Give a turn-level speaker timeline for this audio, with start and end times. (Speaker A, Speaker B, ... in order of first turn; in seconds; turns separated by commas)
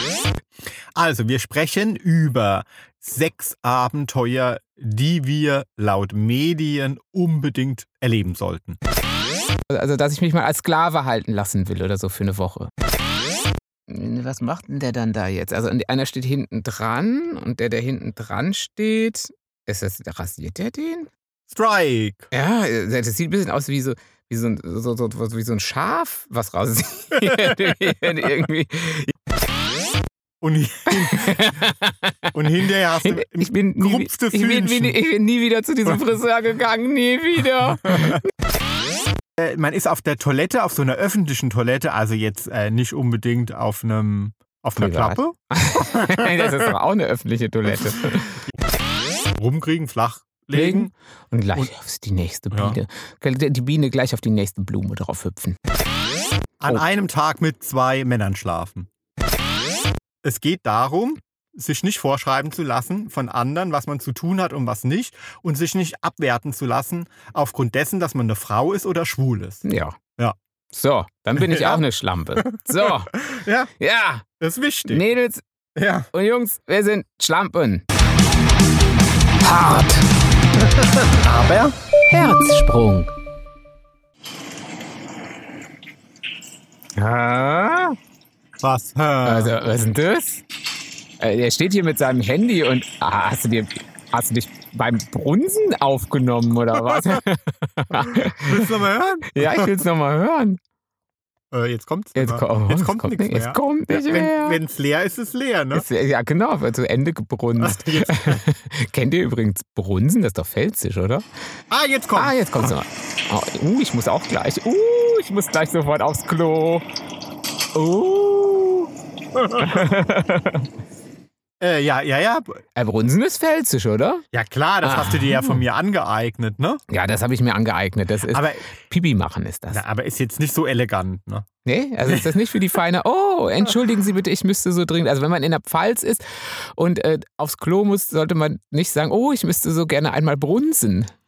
Speaker A: 0.9-8.8, Speaker B: 9.7-12.7, Speaker B: 13.9-21.1, Speaker A: 21.5-22.3, Speaker B: 22.3-29.1, Speaker A: 30.4-31.6, Speaker B: 30.9-32.3, Speaker A: 32.3-35.0, Speaker B: 33.0-38.3, Speaker A: 37.9-38.2, Speaker A: 39.4-46.7, Speaker B: 44.8-48.4, Speaker A: 49.4-50.9, Speaker B: 50.5-55.6, Speaker A: 52.5-52.8, Speaker A: 56.6-58.9, Speaker A: 60.2-69.6, Speaker B: 69.6-70.0, Speaker B: 70.7-73.2, Speaker A: 71.4-71.8, Speaker A: 72.4-73.7, Speaker B: 73.8-74.2, Speaker A: 74.4-75.0, Speaker B: 74.9-75.4, Speaker A: 75.8-76.1, Speaker B: 76.1-77.8, Speaker B: 79.4-80.1, Speaker A: 80.8-81.8, Speaker B: 82.1-83.1, Speaker B: 87.0-88.0, Speaker A: 88.6-89.5, Speaker B: 89.2-90.4, Speaker B: 91.2-98.7, Speaker A: 98.1-99.8, Speaker B: 99.3-100.6, Speaker A: 101.5-105.9, Speaker B: 102.2-104.6, Speaker B: 105.7-111.2, Speaker A: 107.6-108.4, Speaker A: 111.7-112.8, Speaker B: 112.2-116.8, Speaker B: 117.8-118.9, Speaker A: 119.3-119.9, Speaker B: 119.5-120.7, Speaker A: 121.6-122.6, Speaker B: 122.8-124.2, Speaker A: 124.3-126.8, Speaker B: 124.8-125.6, Speaker B: 126.9-129.8, Speaker A: 128.3-128.7, Speaker A: 129.7-131.5, Speaker B: 131.7-141.1, Speaker A: 132.0-132.3